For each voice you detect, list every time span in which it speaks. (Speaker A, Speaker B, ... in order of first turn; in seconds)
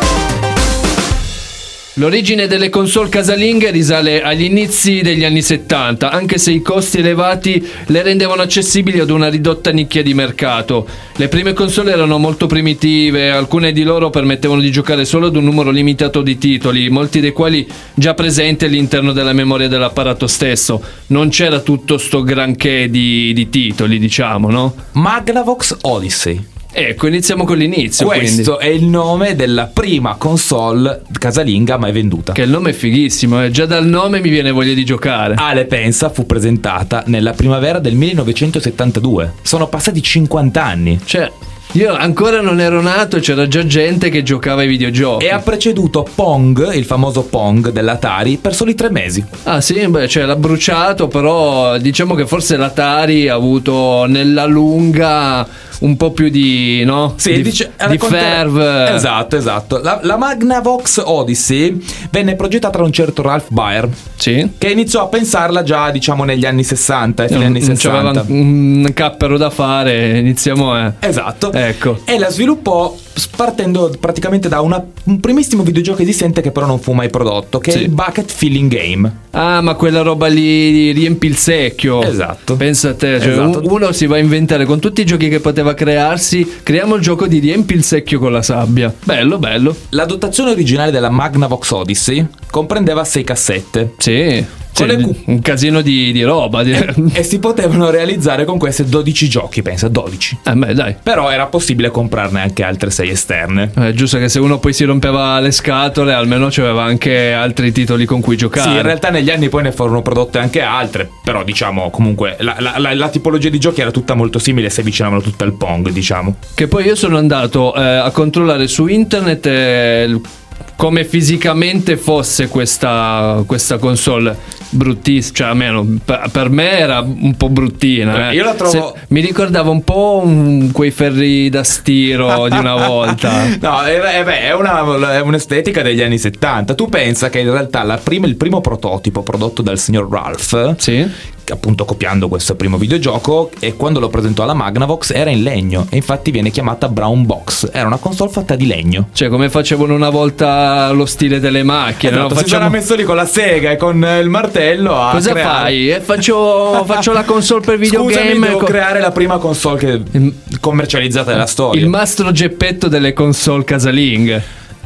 Speaker A: 1.9-24.8, 26.7-28.5, 32.3-35.4, 41.1-45.4, 49.4-59.0, 64.2-64.5, 67.3-71.0, 71.5-72.0, 79.3-89.8, 94.0-97.2, 100.4-101.0, 103.8-108.9, 116.6-120.2, 120.8-133.5, 140.8-141.1, 149.1-152.8, 155.1-158.8, 161.7-164.4
Speaker B: 24.9-26.4, 28.0-32.4, 35.4-41.0, 45.2-49.3, 57.2-63.9, 64.6-68.3, 71.0-79.1, 82.0-82.6, 83.2-83.7, 89.9-93.9, 94.7-95.1, 96.7-100.4, 101.0-103.7, 108.5-116.4, 128.1-129.0, 132.3-140.8, 141.5-149.1, 152.0-155.8, 156.7-157.0, 157.8-161.9